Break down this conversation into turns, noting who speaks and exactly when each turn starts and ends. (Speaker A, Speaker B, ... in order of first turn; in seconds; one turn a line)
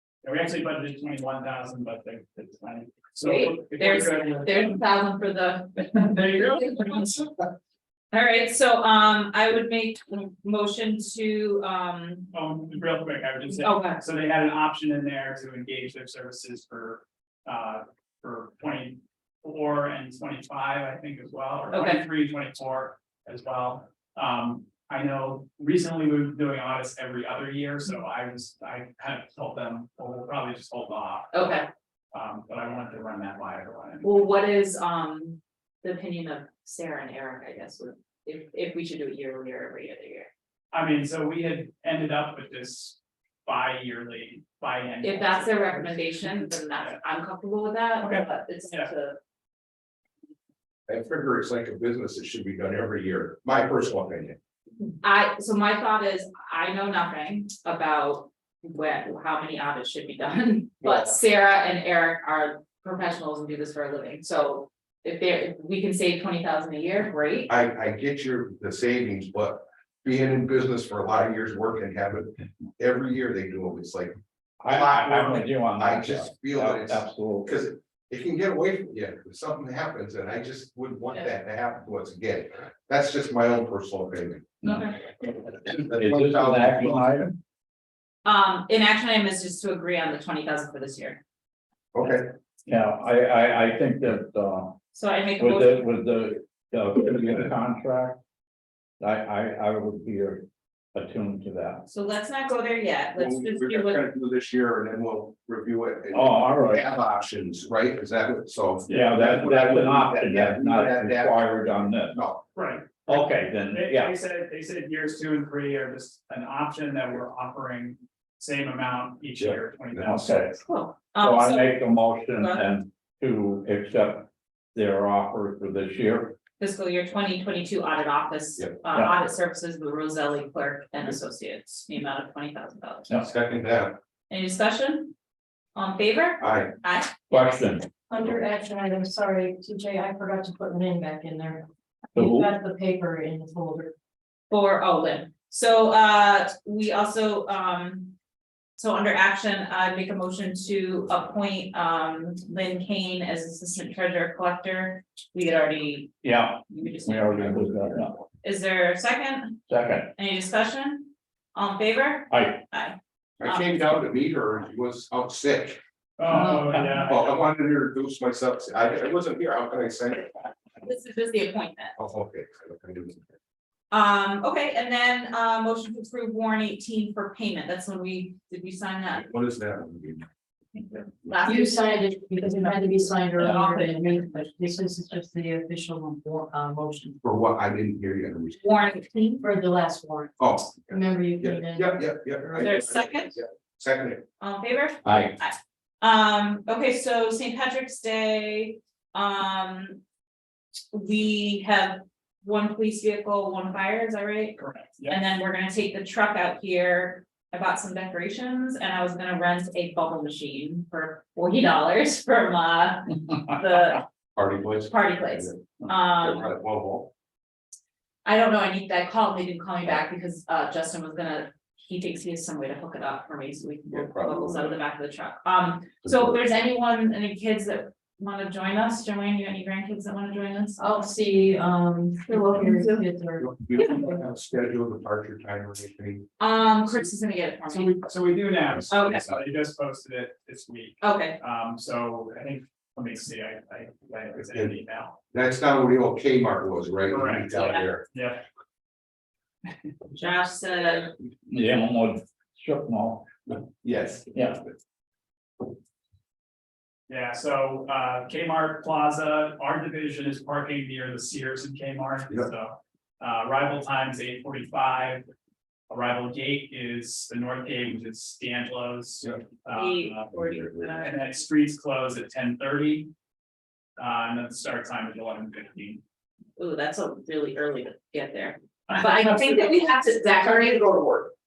Speaker A: 0.2-4.8
Speaker B: 3.2-7.3
Speaker A: 5.9-7.1
Speaker B: 8.1-12.3
Speaker A: 12.3-31.6
Speaker B: 13.5-14.0
Speaker B: 21.7-22.0
Speaker B: 31.3-31.6
Speaker A: 32.1-34.1
Speaker B: 34.0-40.3
Speaker A: 40.7-47.0
Speaker B: 45.0-49.2
Speaker A: 48.0-48.9
Speaker C: 50.9-54.4
Speaker B: 55.0-67.5
Speaker C: 60.8-61.1
Speaker C: 67.5-74.1
Speaker D: 74.6-77.5
Speaker C: 74.7-84.5
Speaker D: 84.6-87.3
Speaker B: 84.6-85.0
Speaker C: 85.4-87.3
Speaker B: 88.2-91.2
Speaker C: 91.9-92.2
Speaker D: 92.7-94.8
Speaker B: 94.9-95.9
Speaker D: 95.4-98.2
Speaker D: 99.0-101.8
Speaker B: 101.9-104.0
Speaker C: 103.1-112.4
Speaker D: 106.1-106.8
Speaker D: 108.9-112.2
Speaker A: 112.5-120.5
Speaker D: 113.1-114.1
Speaker C: 119.4-120.0
Speaker D: 120.0-120.5
Speaker B: 120.6-121.8
Speaker D: 121.2-126.4
Speaker B: 122.4-122.6
Speaker B: 126.6-133.1
Speaker C: 133.1-133.9
Speaker B: 134.3-135.1
Speaker B: 135.7-137.1
Speaker C: 136.4-136.7
Speaker D: 137.3-137.9
Speaker E: 138.1-141.6
Speaker D: 142.1-142.5
Speaker E: 142.2-143.9
Speaker B: 144.5-148.1
Speaker B: 148.8-159.6
Speaker D: 156.2-158.1
Speaker D: 159.7-160.1
Speaker B: 160.1-163.7
Speaker D: 162.3-162.6
Speaker C: 163.4-165.8
Speaker A: 166.2-167.3
Speaker D: 166.6-166.9
Speaker C: 167.1-170.4
Speaker B: 170.8-171.9
Speaker C: 172.0-173.3
Speaker B: 173.9-179.2
Speaker C: 179.1-180.2
Speaker B: 180.7-184.5
Speaker E: 181.4-187.1
Speaker C: 187.2-188.6
Speaker B: 188.6-189.4
Speaker E: 189.4-190.3
Speaker C: 190.4-194.2
Speaker E: 190.9-191.9
Speaker B: 192.6-193.4
Speaker B: 194.4-200.0
Speaker D: 195.0-195.3
Speaker B: 200.9-214.0
Speaker A: 204.6-205.2
Speaker C: 214.3-217.1
Speaker B: 214.9-216.5
Speaker B: 218.2-230.8
Speaker C: 223.9-224.8
Speaker E: 230.8-233.4
Speaker B: 232.2-233.1
Speaker C: 233.4-236.3
Speaker B: 233.8-234.0
Speaker B: 236.4-237.9
Speaker A: 237.7-245.2
Speaker C: 238.7-239.4
Speaker B: 238.9-239.2
Speaker B: 241.0-241.4
Speaker C: 244.4-244.8
Speaker C: 245.3-248.0
Speaker A: 247.1-248.4
Speaker B: 250.1-251.1
Speaker D: 251.5-254.6
Speaker A: 257.1-265.2
Speaker A: 265.9-270.3
Speaker B: 269.7-271.2
Speaker C: 270.3-270.9
Speaker A: 271.0-273.1
Speaker A: 274.0-276.0
Speaker B: 276.6-280.9
Speaker A: 278.9-279.2
Speaker C: 280.3-281.3